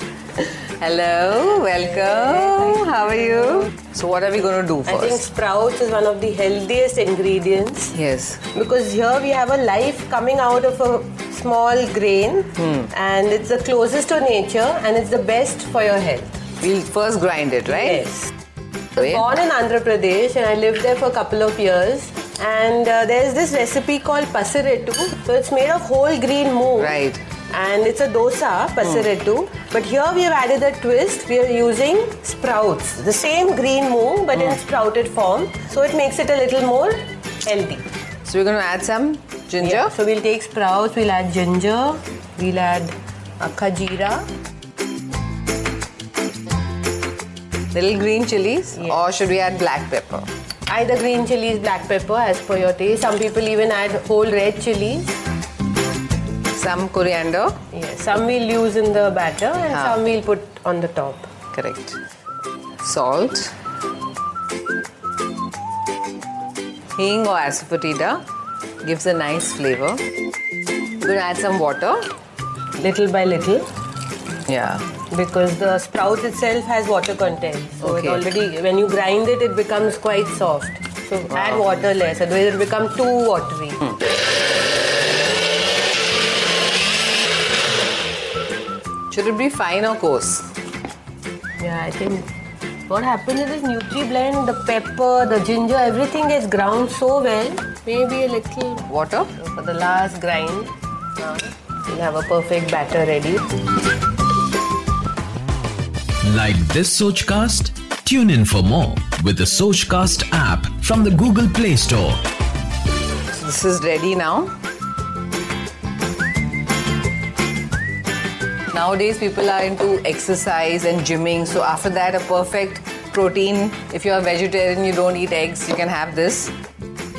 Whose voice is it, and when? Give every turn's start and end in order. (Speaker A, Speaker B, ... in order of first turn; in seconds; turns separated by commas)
Speaker A: 0.4-5.2, Speaker B: 4.9-7.9, Speaker A: 7.9-8.4, Speaker B: 8.5-16.4, Speaker A: 12.6-12.9, Speaker A: 16.6-18.1, Speaker B: 17.7-18.3, Speaker B: 18.9-27.0, Speaker A: 26.8-27.2, Speaker B: 27.5-37.8, Speaker A: 38.2-39.9, Speaker B: 39.6-44.2, Speaker A: 47.7-50.3, Speaker B: 50.7-55.1, Speaker A: 56.5-57.6, Speaker B: 57.7-61.3, Speaker A: 59.7-60.0, Speaker A: 61.5-62.0, Speaker A: 62.8-63.5, Speaker A: 67.0-68.2, Speaker A: 68.8-70.0, Speaker A: 71.0-72.0, Speaker B: 72.8-73.7, Speaker A: 74.5-74.8, Speaker B: 75.1-83.9, Speaker A: 77.8-78.3, Speaker A: 89.1-90.5, Speaker B: 91.6-92.3, Speaker B: 92.9-103.4, Speaker A: 98.9-99.3, Speaker C: 106.2-112.2, Speaker A: 113.3-114.5, Speaker A: 118.7-126.5